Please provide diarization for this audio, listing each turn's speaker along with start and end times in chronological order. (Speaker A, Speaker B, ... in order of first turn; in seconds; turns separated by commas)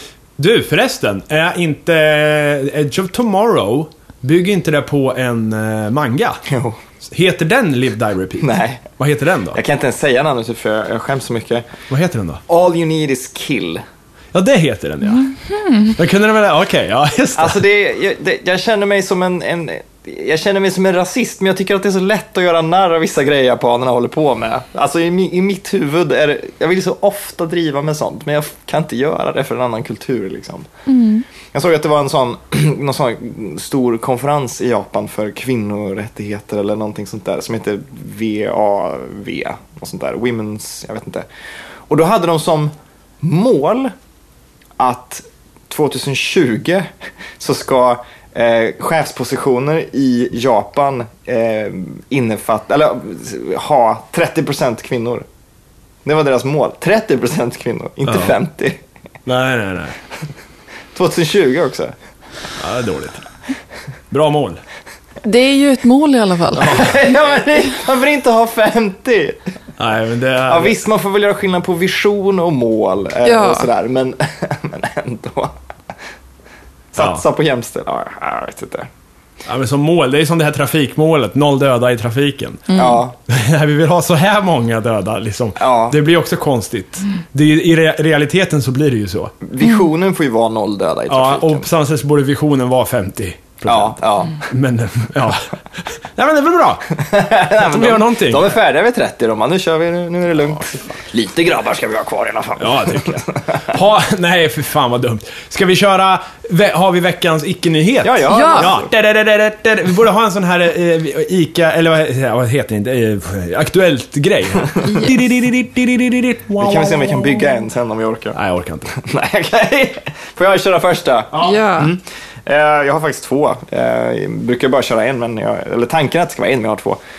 Speaker A: 0.4-6.4, Speaker B: 6.5-6.8, Speaker A: 7.0-9.6, Speaker B: 8.4-8.8, Speaker B: 9.5-11.7, Speaker A: 11.9-12.4, Speaker B: 12.5-13.8, Speaker A: 14.3-15.3, Speaker C: 15.2-15.9, Speaker A: 15.8-17.6, Speaker B: 17.4-30.7, Speaker C: 30.9-31.2, Speaker B: 31.5-41.3, Speaker B: 41.9-43.9, Speaker B: 44.8-55.3, Speaker B: 56.0-58.8, Speaker A: 58.1-58.3, Speaker A: 59.3-60.0, Speaker B: 60.9-61.9, Speaker A: 62.6-63.2, Speaker A: 64.1-64.6, Speaker C: 65.2-66.8, Speaker A: 66.6-67.0, Speaker B: 66.6-69.4, Speaker A: 69.8-70.8, Speaker B: 70.5-75.6, Speaker C: 73.2-73.7, Speaker B: 76.9-78.9, Speaker A: 79.5-82.7, Speaker C: 82.7-83.0, Speaker B: 82.8-83.2, Speaker A: 83.3-89.3, Speaker B: 85.6-86.0, Speaker B: 89.4-91.7, Speaker A: 91.1-97.0, Speaker B: 93.7-94.5, Speaker B: 97.0-103.8, Speaker A: 97.6-98.5, Speaker A: 102.6-117.5, Speaker B: 108.0-108.9, Speaker C: 108.3-108.7, Speaker B: 116.6-118.4, Speaker A: 118.3-118.9, Speaker B: 118.9-127.0, Speaker C: 121.4-121.9